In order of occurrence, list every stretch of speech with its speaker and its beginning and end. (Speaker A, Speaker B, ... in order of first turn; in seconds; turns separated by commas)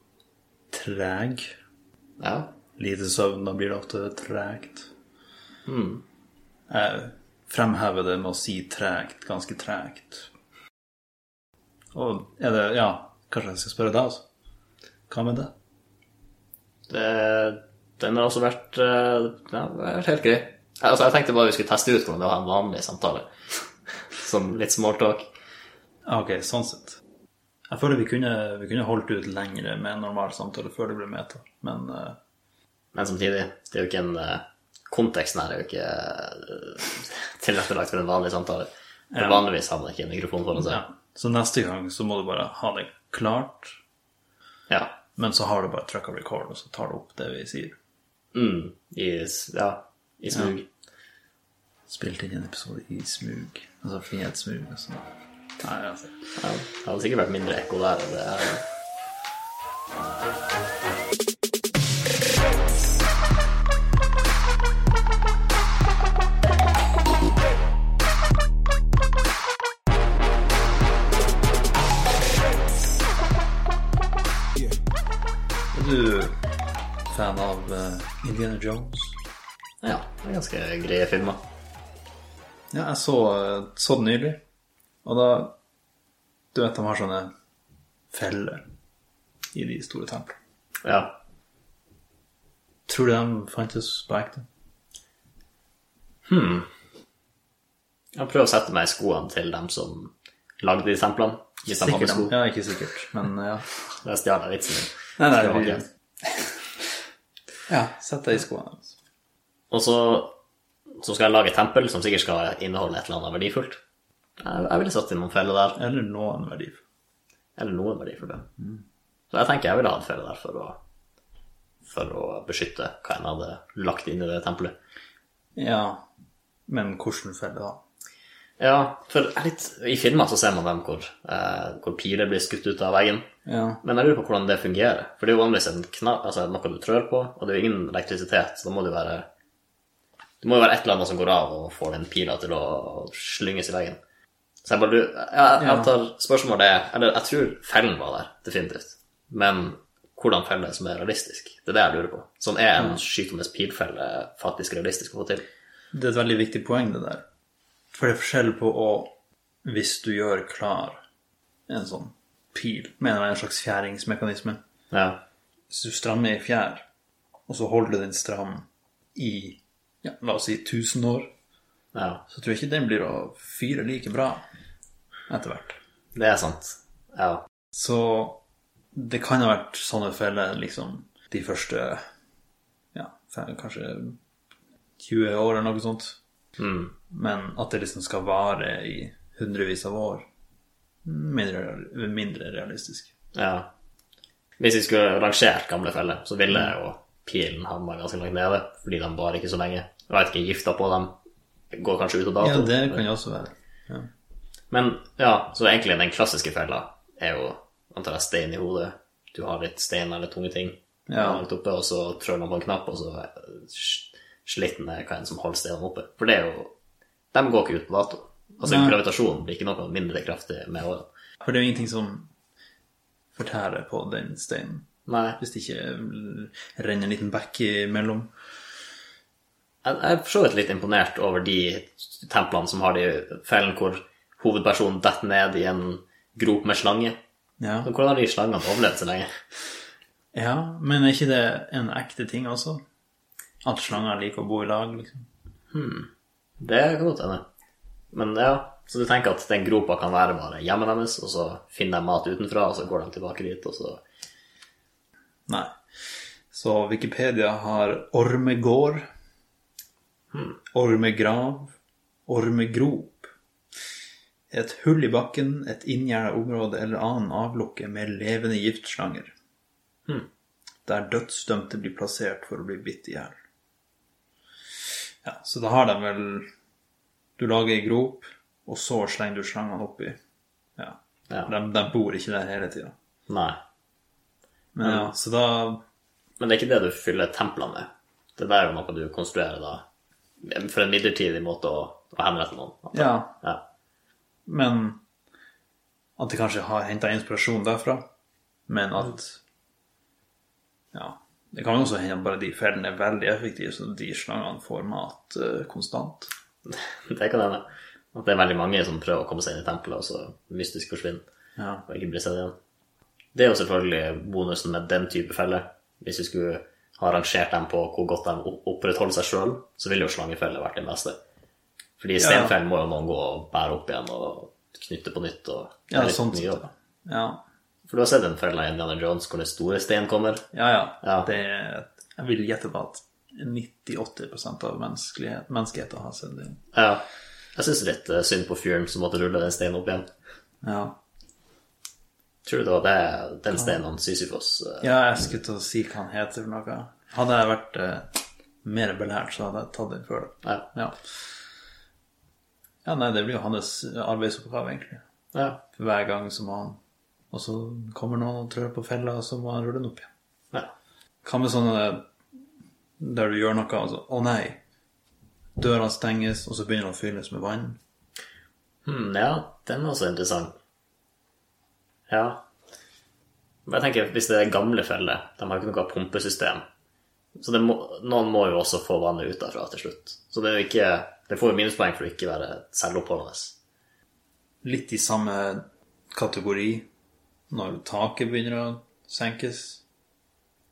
Speaker A: 0.7-1.6, Speaker B: 2.2-2.5, Speaker A: 2.8-4.9, Speaker B: 5.7-6.0, Speaker A: 6.7-10.3, Speaker A: 11.9-14.2, Speaker A: 15.1-15.5, Speaker B: 16.9-23.3, Speaker B: 24.1-25.2, Speaker A: 26.1-27.0, Speaker A: 27.7-32.2, Speaker B: 32.9-40.8, Speaker A: 39.1-39.5, Speaker A: 40.6-43.8, Speaker B: 44.7-45.0, Speaker A: 45.2-47.8, Speaker B: 48.3-50.7, Speaker A: 51.9-55.1, Speaker A: 55.6-56.1, Speaker B: 56.4-58.6, Speaker A: 75.7-76.3, Speaker A: 77.1-79.2, Speaker B: 79.8-81.4, Speaker A: 82.7-84.4, Speaker A: 85.0-85.5, Speaker A: 86.5-87.3, Speaker A: 88.1-88.6, Speaker A: 89.5-90.3, Speaker B: 90.8-91.2, Speaker A: 92.9-94.4, Speaker B: 96.2-96.7, Speaker B: 98.1-102.3, Speaker A: 101.7-103.8, Speaker B: 104.0-105.8, Speaker A: 105.2-106.6, Speaker A: 107.7-109.0, Speaker B: 109.7-110.3, Speaker B: 111.0-113.8, Speaker B: 114.4-115.8, Speaker A: 115.8-116.8, Speaker B: 117.6-118.5, Speaker A: 118.6-118.8, Speaker B: 119.3-120.8, Speaker B: 121.8-124.8, Speaker A: 125.6-126.1, Speaker A: 126.7-127.8, Speaker B: 128.6-133.3, Speaker A: 133.5-133.8, Speaker B: 133.8-139.2, Speaker B: 140.4-144.0, Speaker B: 144.6-155.4, Speaker A: 145.6-145.9, Speaker A: 155.9-157.2, Speaker A: 157.9-159.1, Speaker A: 159.7-161.0, Speaker A: 161.7-164.6, Speaker B: 164.9-165.2, Speaker A: 165.7-166.8, Speaker A: 167.5-171.3, Speaker B: 171.9-172.2, Speaker A: 172.3-174.4, Speaker A: 175.3-175.8, Speaker B: 176.2-177.4, Speaker A: 177.7-178.4, Speaker A: 178.9-182.0, Speaker A: 182.9-184.2, Speaker A: 185.0-186.2, Speaker B: 186.6-186.9, Speaker A: 187.1-190.3, Speaker A: 191.0-193.1, Speaker B: 193.3-193.7, Speaker B: 194.6-201.1, Speaker B: 201.7-203.0, Speaker A: 202.4-204.1, Speaker B: 204.7-216.7, Speaker A: 211.1-211.4, Speaker B: 217.3-221.1, Speaker A: 218.6-219.0, Speaker A: 221.4-222.3, Speaker A: 223.3-224.8, Speaker B: 225.1-225.4, Speaker A: 225.4-228.3, Speaker B: 229.8-237.2, Speaker A: 237.6-237.9, Speaker B: 237.8-239.3, Speaker A: 240.3-242.8, Speaker A: 243.6-245.3, Speaker B: 245.7-246.1, Speaker B: 246.6-247.4, Speaker B: 248.1-254.0, Speaker A: 255.5-259.1, Speaker B: 260.3-260.6, Speaker A: 260.7-261.8, Speaker A: 262.3-263.3, Speaker A: 264.5-269.3, Speaker A: 270.9-273.4, Speaker A: 275.2-276.5, Speaker A: 277.4-280.2, Speaker A: 280.8-282.9, Speaker B: 283.3-283.6, Speaker A: 284.8-285.8, Speaker B: 284.8-285.1, Speaker B: 286.4-289.9, Speaker B: 290.4-293.6, Speaker A: 292.9-293.4, Speaker A: 294.5-295.0, Speaker A: 296.2-298.1, Speaker A: 298.7-299.4, Speaker A: 300.9-306.3, Speaker B: 306.7-311.2, Speaker A: 311.6-311.9, Speaker B: 311.9-312.6, Speaker B: 313.4-321.2, Speaker B: 322.0-326.6, Speaker A: 322.2-322.6, Speaker A: 325.9-327.4, Speaker B: 327.9-330.5, Speaker A: 330.5-336.6, Speaker B: 331.0-331.3, Speaker B: 336.7-337.0, Speaker B: 337.6-340.1, Speaker A: 340.6-341.0, Speaker B: 342.4-344.9, Speaker A: 344.8-348.1, Speaker A: 348.6-351.0, Speaker A: 352.9-355.0, Speaker B: 355.3-355.6, Speaker A: 355.8-356.8, Speaker A: 357.3-360.1, Speaker A: 361.2-362.0, Speaker A: 363.0-364.6, Speaker A: 365.6-367.8, Speaker B: 368.9-370.6, Speaker B: 372.1-372.4, Speaker B: 373.7-376.6, Speaker B: 377.4-383.6, Speaker A: 384.6-386.9, Speaker A: 387.5-389.8